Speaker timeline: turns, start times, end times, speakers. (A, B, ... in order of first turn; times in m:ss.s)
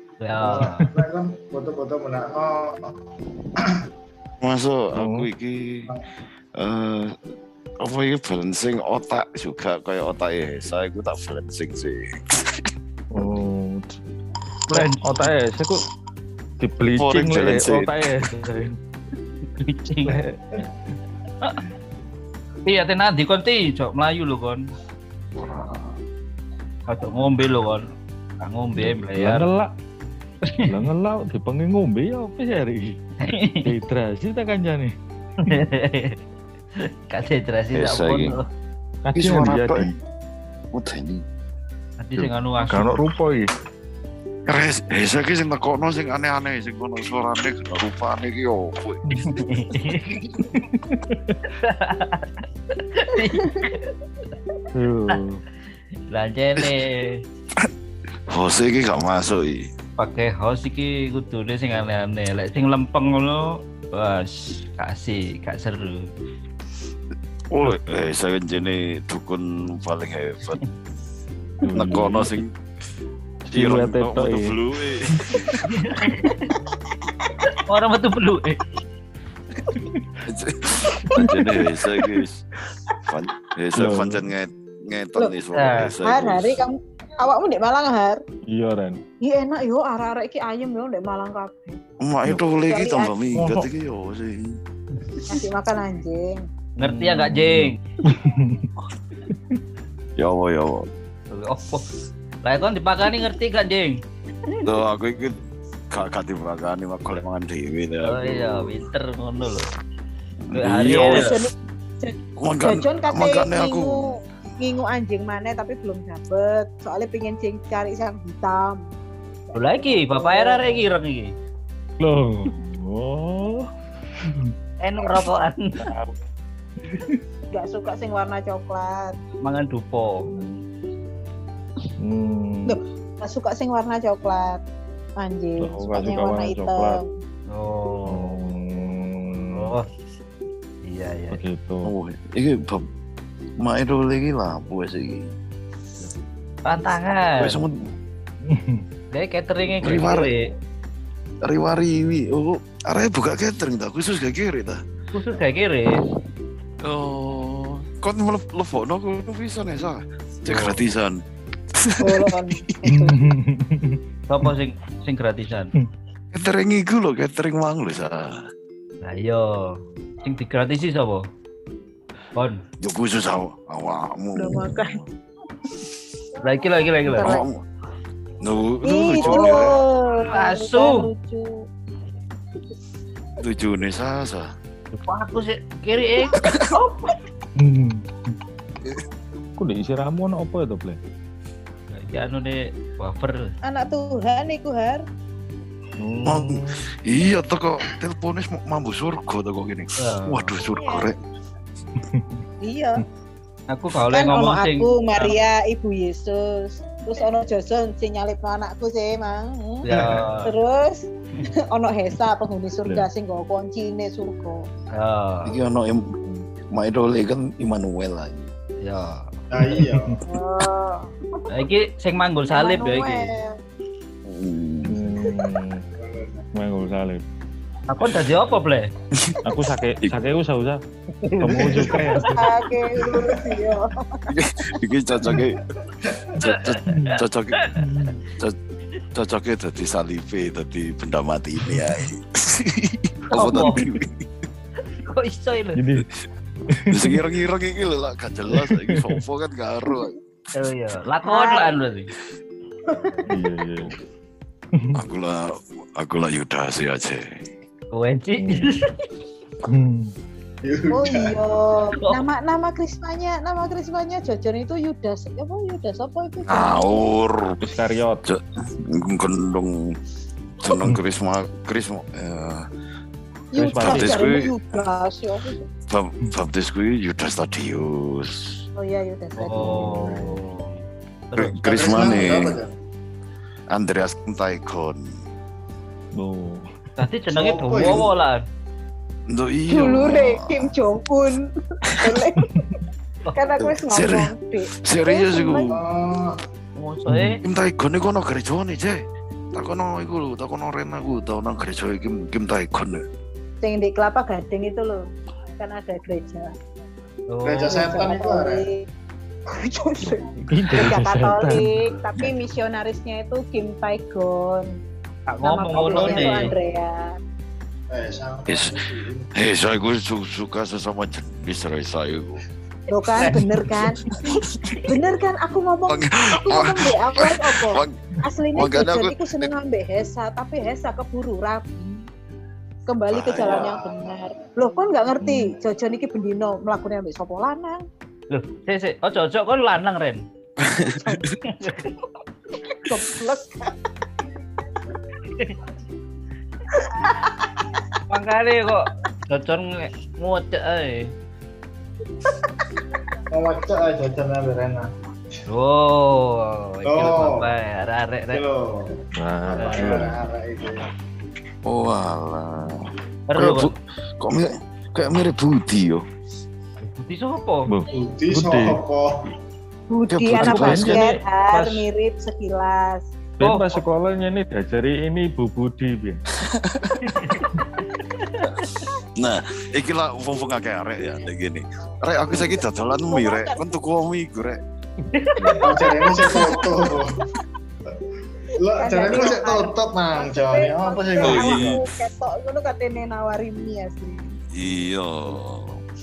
0:00.2-0:00.9 A
0:00.4-0:02.9 B
0:04.4-0:05.9 C
0:04.9-0:05.3 D
0:06.6-0:07.2 C
0:07.8-0:12.7 C
0:13.1-0:14.0 D
0:14.7-0:15.2 A
0:14.7-0:15.8 D
0:16.6-0:18.8 D
0:17.0-0:17.9 C
0:19.6-0:20.2 A
0:20.0-0:20.4 D
0:22.6-0:24.6 A
0:25.3-0:25.9 C
0:26.9-0:27.9 A
0:28.4-0:29.5 A
0:28.7-0:29.7 D
0:30.5-0:30.8 A
0:30.6-0:33.0 D
0:33.2-0:33.7 A
0:33.6-0:35.6 D
0:35.5-0:36.2 A
0:36.8-0:38.4 A
0:37.7-0:38.3 C
0:39.0-0:39.9 D
0:39.1-0:39.9 C
0:40.7-0:41.2 C
0:42.0-0:43.0 A
0:42.2-0:43.4 D
0:44.4-0:49.2 C
0:49.1-0:49.4 D
0:49.3-0:50.2 A
0:50.5-0:51.4 D
0:51.5-0:53.9 A
0:53.2-0:53.6 E
0:54.7-0:55.4 D
0:56.1-0:57.2 A
0:58.3-0:59.7 C
1:00.0-1:06.1 A
1:07.5-1:10.6 C
1:11.6-1:12.3 D
1:11.7-1:12.5 C
1:13.4-1:14.6 D
1:13.5-1:15.6 C
1:15.1-1:15.6 D
1:15.6-1:16.5 A
1:17.5-1:18.6 A
1:19.7-1:20.0 D
1:20.2-1:22.4 C
1:21.0-1:22.0 E
1:23.0-1:26.6 C
1:23.7-1:24.3 D
1:25.5-1:25.9 A
1:26.0-1:28.2 E
1:28.5-1:29.0 D
1:29.2-1:31.8 E
1:32.0-1:34.6 C
1:32.7-1:33.2 E
1:33.3-1:33.7 D
1:35.0-1:35.2 A
1:35.3-1:36.5 E
1:36.8-1:37.8 A
1:36.8-1:38.7 D
1:39.3-1:39.6 D
1:40.2-1:40.9 C
1:41.3-1:41.8 A
1:42.4-1:44.0 A
1:44.6-1:45.4 C
1:45.9-1:48.7 C
1:48.0-1:49.6 A
1:50.4-1:51.4 C
1:50.5-1:51.4 A
1:50.9-1:58.8 E
1:52.4-1:54.1 C
1:59.5-2:00.9 E
1:59.5-2:01.3 A
2:02.0-2:03.7 D
2:04.2-2:04.5 D
2:04.8-2:05.8 A
2:05.8-2:06.2 D
2:06.8-2:07.2 D
2:07.5-2:09.2 E
2:09.4-2:10.3 A
2:10.3-2:10.6 D
2:12.0-2:12.8 D
2:12.6-2:14.6 E
2:15.2-2:17.1 E
2:15.6-2:17.0 D
2:17.5-2:18.4 A
2:18.1-2:19.8 D
2:19.5-2:19.8 A
2:20.8-2:21.4 A
2:21.3-2:21.9 D
2:21.8-2:22.8 C
2:23.6-2:25.3 C
2:26.6-2:27.6 A
2:27.4-2:27.9 C
2:28.5-2:28.8 D
2:29.1-2:30.4 A
2:29.8-2:30.3 C
2:31.4-2:34.8 C
2:35.1-2:36.0 A
2:36.8-2:41.2 C
2:41.7-2:42.3 C
2:42.0-2:43.2 E
2:42.8-2:44.5 D
2:44.3-2:45.7 A
2:46.3-2:48.4 C
2:49.0-2:51.2 A
2:52.3-2:52.6 A
2:52.8-2:55.1 C
2:54.4-2:55.0 E
2:56.4-2:57.4 A
2:57.0-2:57.4 E
2:57.1-2:57.6 C
2:58.4-2:59.8 C
2:58.8-3:01.7 E
2:59.2-2:59.6 A
3:00.2-3:01.1 A
3:03.4-3:04.5 C
3:04.9-3:07.0 A
3:06.4-3:06.7 C
3:07.6-3:08.4 D
3:09.6-3:11.0 D
3:11.9-3:13.5 A
3:13.6-3:15.0 E
3:16.0-3:16.8 D
3:16.2-3:21.2 C
3:20.0-3:20.6 A
3:20.7-3:21.1 E
3:22.0-3:22.4 D
3:22.6-3:23.0 E
3:23.7-3:25.4 A
3:24.1-3:34.7 E
3:29.8-3:30.5 A
3:29.9-3:30.2 D
3:34.9-3:35.6 A
3:35.4-3:38.5 C
3:38.8-3:39.3 A
3:39.5-3:40.2 B
3:39.6-3:40.2 D
3:40.2-3:41.4 E
3:41.5-3:43.3 A
3:42.5-3:43.6 E
3:44.2-3:45.3 C
3:44.9-3:45.8 D
3:46.0-3:46.4 B
3:46.5-3:47.2 D
3:47.9-3:48.9 A
3:49.1-3:49.4 C
3:49.4-3:50.8 D
3:51.2-3:52.2 A
3:51.4-3:52.5 D
3:51.5-3:52.3 B
3:52.4-3:54.2 E
3:53.1-3:53.6 B
3:54.3-3:55.6 C
3:56.0-3:56.4 B
3:56.4-3:57.6 C
3:56.4-3:57.8 A
3:56.9-3:57.2 D
3:57.7-3:58.2 D
3:59.1-4:04.2 C
4:03.3-4:03.8 A
4:05.0-4:05.8 A
4:05.7-4:06.1 D
4:06.7-4:07.2 D
4:06.9-4:10.2 C
4:08.5-4:09.2 D
4:10.5-4:12.1 A
4:11.2-4:11.7 E
4:12.9-4:13.3 E
4:13.3-4:13.9 D
4:14.7-4:15.0 D
4:14.9-4:17.4 C
4:17.9-4:18.9 A
4:18.4-4:18.8 D
4:19.7-4:20.1 D
4:20.6-4:21.5 B
4:20.9-4:27.0 E
4:26.5-4:27.6 C
4:27.6-4:28.2 D
4:28.2-4:30.0 C
4:30.6-4:32.7 C
4:33.5-4:35.6 E
4:33.6-4:34.3 D
4:33.8-4:34.5 C
4:35.9-4:38.6 C
4:38.8-4:40.1 E
4:39.4-4:41.6 A
4:39.5-4:40.4 D
4:41.4-4:42.6 C
4:41.6-4:42.7 B
4:43.7-4:45.2 C
4:46.1-4:46.7 D
4:47.0-4:48.4 A
4:47.3-4:48.1 B
4:49.3-4:50.7 C
4:49.7-4:52.7 E
4:51.9-4:52.2 C
4:52.5-4:52.8 D
4:53.3-4:55.8 E
4:53.6-4:55.8 C
4:55.7-4:56.3 B
4:56.8-4:57.4 A
4:57.1-4:57.4 D
4:57.4-5:03.0 C
5:03.6-5:05.0 E
5:05.6-5:06.5 E
5:07.3-5:07.9 A
5:07.4-5:08.6 B
5:07.7-5:08.8 E
5:09.5-5:14.7 E
5:10.0-5:12.3 D
5:15.3-5:16.5 A
5:15.4-5:17.1 E
5:15.8-5:16.5 B
5:17.9-5:19.3 B
5:18.5-5:18.8 C
5:19.3-5:22.4 C
5:22.9-5:24.1 E
5:23.8-5:24.8 C
5:24.9-5:32.0 E
5:25.9-5:28.0 C
5:28.5-5:29.5 C
5:32.9-5:37.8 E
5:33.1-5:33.7 C
5:33.3-5:34.5 B
5:35.2-5:35.5 D
5:38.3-5:40.2 A
5:40.6-5:41.4 C
5:41.4-5:41.9 A
5:42.6-5:43.7 E
5:45.2-5:45.6 A
5:46.8-5:47.2 E
5:48.1-5:51.1 A
5:53.3-5:54.9 B
5:55.5-5:58.4 A
5:56.8-5:57.4 B
5:58.3-5:58.9 B
5:59.1-6:00.1 D
5:59.5-6:00.8 B
5:59.6-6:00.0 A
6:01.6-6:06.0 C
6:03.3-6:03.7 A
6:06.8-6:07.7 A
6:07.7-6:08.8 D
6:07.9-6:09.1 B
6:09.9-6:13.1 E
6:10.1-6:11.0 C
6:10.4-6:11.8 D
6:13.4-6:16.2 D
6:13.4-6:13.8 A
6:16.4-6:17.3 C
6:17.0-6:18.8 A
6:19.2-6:24.6 C
6:23.1-6:23.6 E
6:25.1-6:25.7 A
6:25.4-6:25.7 D
6:25.6-6:27.2 B
6:25.7-6:26.3 E
6:28.6-6:31.8 B
6:28.8-6:34.3 E
6:31.2-6:31.8 C
6:34.5-6:35.8 C